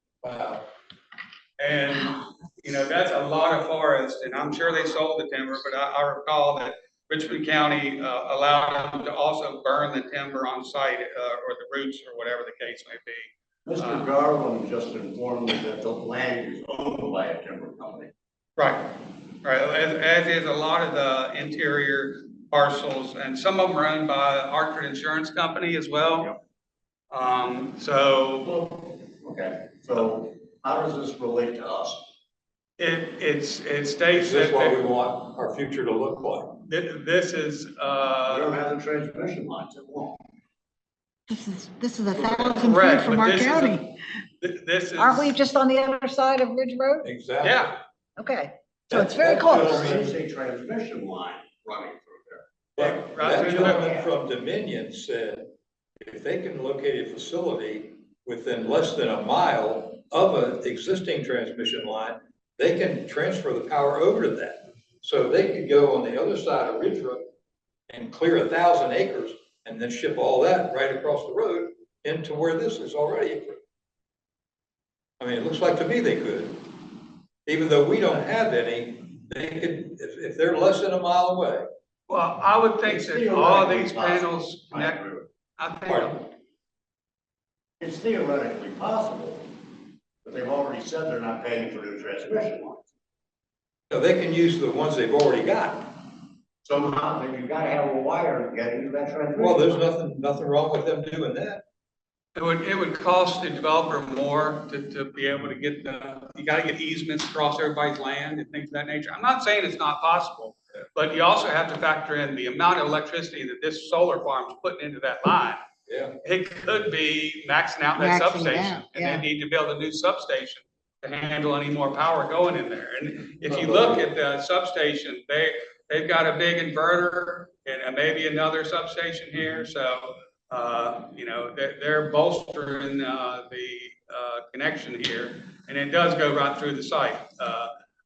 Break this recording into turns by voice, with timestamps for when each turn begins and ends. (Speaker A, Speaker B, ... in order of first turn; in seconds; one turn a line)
Speaker A: 0.2-0.6
Speaker B: 1.6-14.1
Speaker C: 13.7-18.1
Speaker B: 18.6-26.4
Speaker B: 27.1-28.5
Speaker C: 28.4-32.0
Speaker B: 32.8-34.8
Speaker A: 34.1-36.6
Speaker B: 36.7-38.6
Speaker C: 38.3-40.2
Speaker D: 41.3-43.8
Speaker B: 42.2-43.8
Speaker B: 44.4-45.4
Speaker D: 45.0-47.1
Speaker A: 47.0-47.6
Speaker B: 47.4-47.8
Speaker D: 48.2-49.9
Speaker A: 48.9-50.1
Speaker C: 49.5-52.5
Speaker A: 52.8-55.5
Speaker B: 52.8-53.9
Speaker C: 53.3-54.1
Speaker A: 56.0-67.2
Speaker A: 67.9-73.6
Speaker A: 75.2-76.6
Speaker A: 77.5-81.7
Speaker B: 82.1-85.0
Speaker C: 82.8-85.3
Speaker B: 85.6-86.2
Speaker A: 85.9-86.1
Speaker C: 87.8-89.5
Speaker C: 90.2-92.9
Speaker A: 93.9-96.0
Speaker C: 96.6-99.8
Speaker A: 99.4-101.6
Speaker B: 102.3-115.6
Speaker A: 115.9-116.1
Speaker B: 116.2-137.7
Speaker D: 118.0-119.2
Speaker A: 123.5-124.1